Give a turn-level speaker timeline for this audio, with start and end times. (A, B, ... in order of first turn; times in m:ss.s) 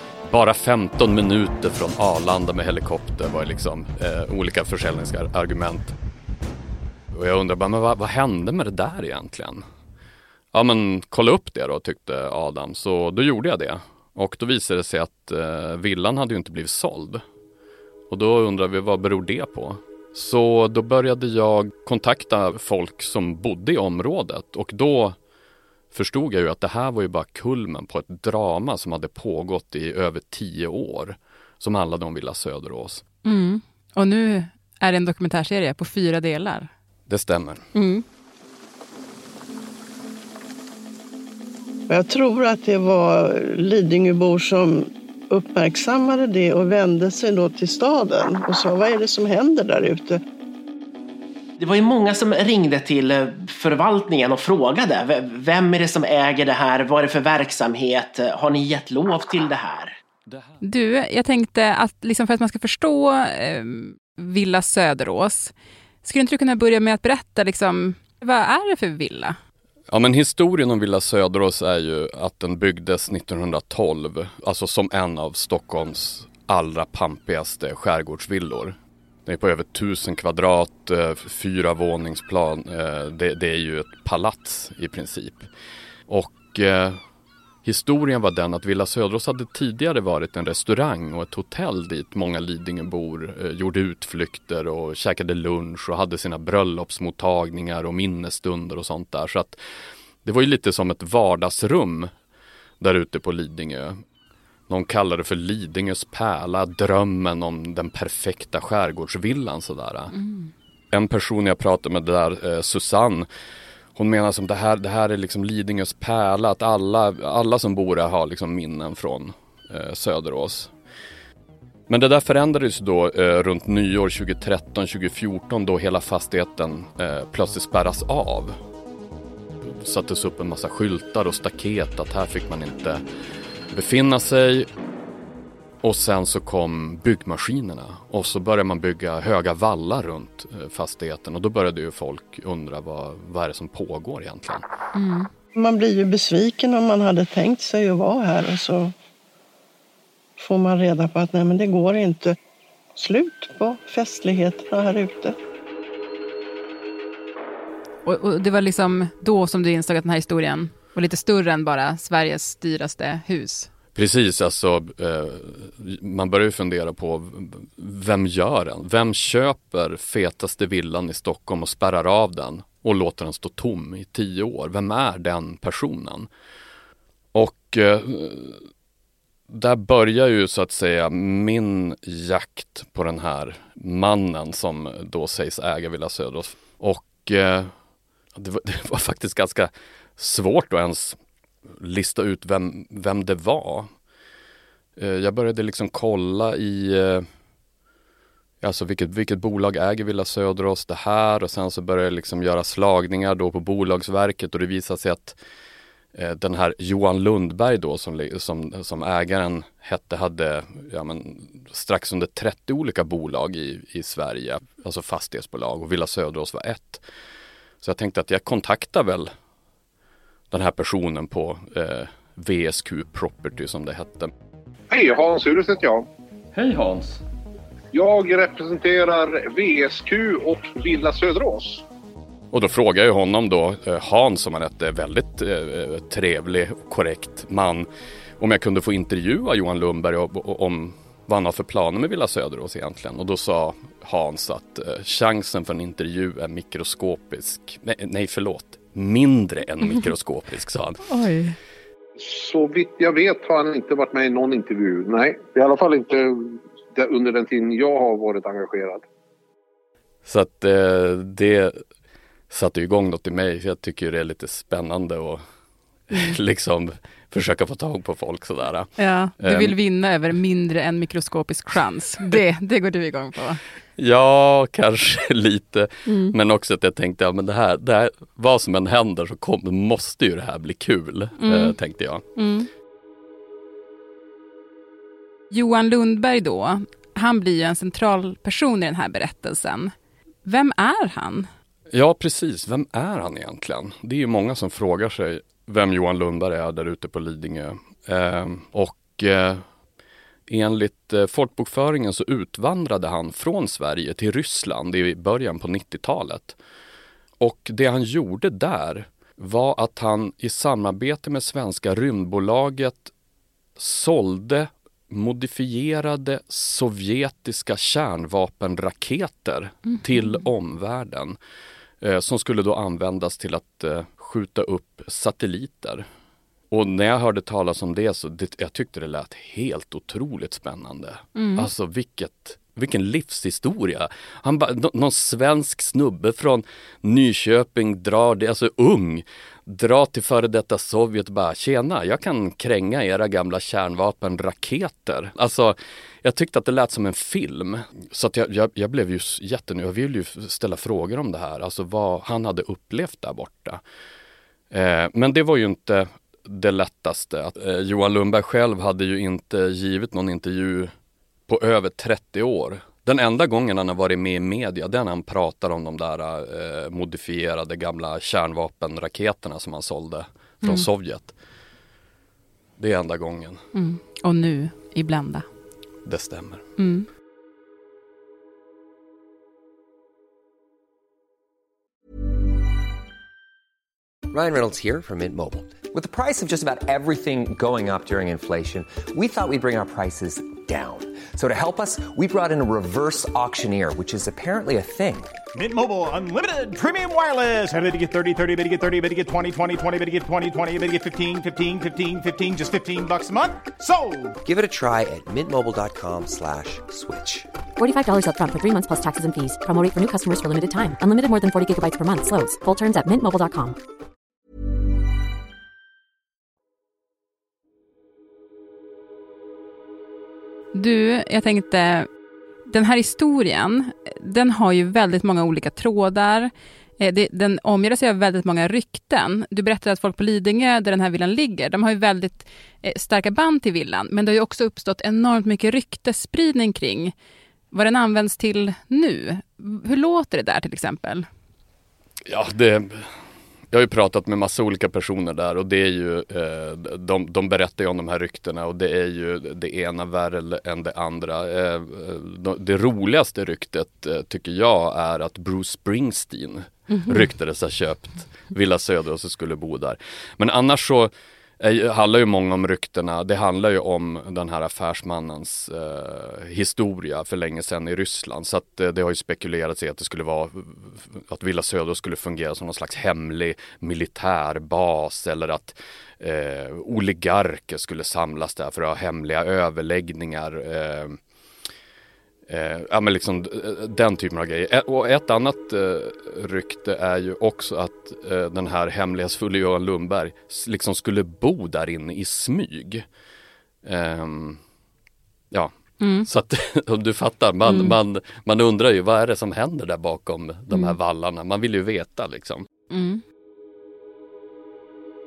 0:00.2-0:05.9 A
0:07.1-0:09.6 A
0:10.5-0:17.2 A
0:18.1-0:25.2 A
0:25.9-0:33.0 A
0:33.2-0:36.7 B
0:37.1-0:37.6 A
0:37.7-0:38.0 B
0:41.9-0:50.2 C
0:51.6-1:00.0 D
1:00.6-1:09.4 B
1:09.9-1:25.5 A
1:26.1-1:27.0 A
1:27.6-1:39.6 A
1:40.2-1:42.1 A
1:42.8-1:44.0 A
1:44.7-1:50.1 A
1:50.1-1:50.5 B
1:50.9-1:53.3 A
1:54.0-2:00.7 A
2:01.9-2:08.6 A
2:09.6-2:13.0 A
2:13.7-2:14.7 A
2:15.8-2:24.6 A
2:24.9-2:25.3 B
2:25.6-2:28.9 C
2:30.4-2:32.4 C
2:33.0-2:35.4 C
2:38.0-2:43.7 B
2:43.9-2:56.3 A
2:57.3-2:58.6 A
2:59.5-3:07.7 A
3:08.3-3:11.2 A
3:11.8-3:13.9 A
3:15.0-3:17.2 A
3:18.6-3:25.4 A
3:26.1-3:37.0 A
3:37.8-3:39.3 A
3:40.5-3:44.3 A
3:44.9-3:46.0 E
3:46.5-3:47.2 A
3:48.0-3:51.8 E
3:52.5-3:57.9 A
3:58.4-4:11.0 A
4:11.0-4:11.6 B
4:12.4-4:16.2 E
4:16.9-4:19.0 E
4:20.2-4:21.7 A
4:22.5-4:25.4 A
4:26.1-4:29.7 A
4:29.0-4:33.6 B
4:34.0-4:42.2 A
4:36.0-4:36.4 B
4:41.4-4:41.8 B
4:42.3-4:42.7 B
4:45.5-4:49.9 B
4:50.4-4:51.5 B
4:51.9-4:59.6 A
5:00.5-5:06.6 A
5:07.4-5:13.1 A
5:13.8-5:21.4 A
5:22.0-5:26.0 A
5:26.7-5:53.8 A
5:31.4-5:31.7 B
5:54.7-6:00.9 A
6:01.5-6:11.3 A
6:12.8-6:13.6 A
6:13.7-6:15.4 B
6:16.0-6:16.6 A
6:16.8-6:17.1 B
6:24.3-6:35.3 F
6:35.5-6:44.4 G
6:44.4-6:47.5 F
6:47.8-6:53.8 H
7:00.7-7:02.1 B
7:02.7-7:17.1 B
7:17.7-7:21.3 B
7:22.2-7:23.1 A
7:23.7-8:01.2 A
8:02.5-8:13.0 A
8:13.8-8:14.6 A
8:16.0-8:16.3 B
8:16.2-8:22.6 A
8:17.6-8:17.9 B
8:22.9-8:23.2 B